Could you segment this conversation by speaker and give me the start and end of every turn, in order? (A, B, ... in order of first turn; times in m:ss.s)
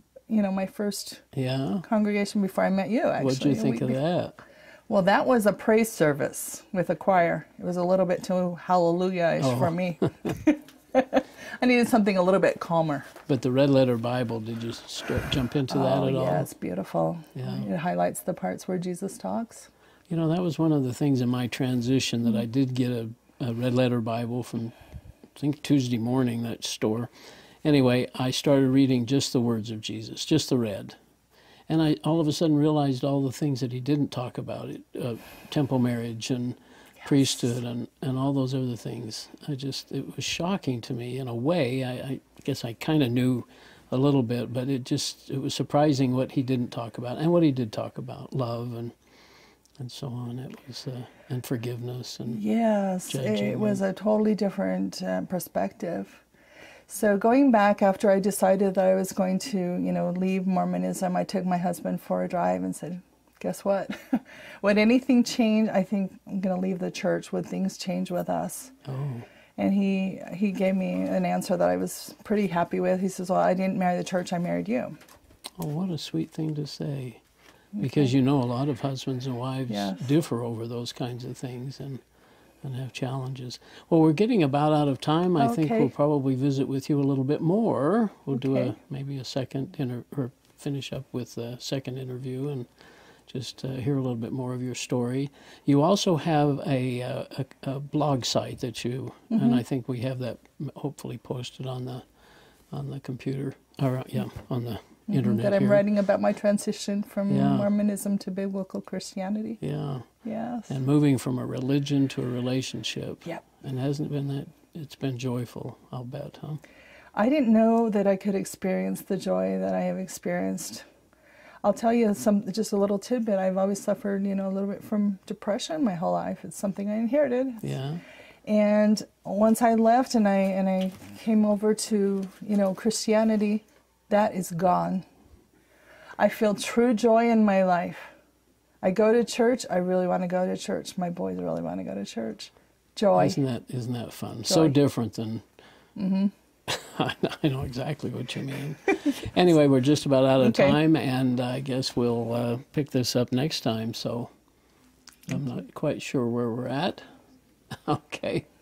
0:00.3-0:01.2 A
0:01.3-0:01.8 B
0:01.8-0:04.0 A
0:03.2-0:04.4 B
0:04.9-0:13.1 A
0:09.4-0:10.3 B
0:13.3-0:16.5 B
0:15.7-0:19.7 A
0:17.3-0:17.7 B
0:20.1-0:24.7 B
0:25.3-0:27.1 B
0:27.6-0:31.0 B
0:31.7-0:48.9 B
0:37.0-0:37.2 A
0:49.8-0:52.4 B
0:52.3-0:56.2 A
0:53.1-0:53.8 B
0:56.9-1:08.7 A
1:08.8-1:09.2 B
1:09.6-1:15.0 A
1:15.6-1:17.2 B
1:17.8-1:18.1 A
1:17.8-1:22.0 B
1:19.7-1:20.1 A
1:22.6-1:32.7 B
1:25.4-1:25.9 A
1:28.3-1:28.8 A
1:33.3-1:42.0 B
1:39.3-1:39.6 A
1:42.7-1:45.8 B
1:45.1-1:49.6 A
1:47.3-1:47.7 B
1:49.6-1:50.1 B
1:50.2-1:50.8 A
1:50.7-1:56.6 B
1:57.1-2:00.8 A
2:01.6-2:07.7 A
2:07.6-2:08.0 B
2:08.4-2:15.0 A
2:16.2-2:18.1 A
2:18.8-2:23.4 A
2:23.2-2:25.4 B
2:24.4-2:24.8 A
2:26.0-2:26.3 A
2:26.7-2:34.3 B
2:30.4-2:30.8 A
2:35.3-2:37.0 B
2:37.7-2:38.5 B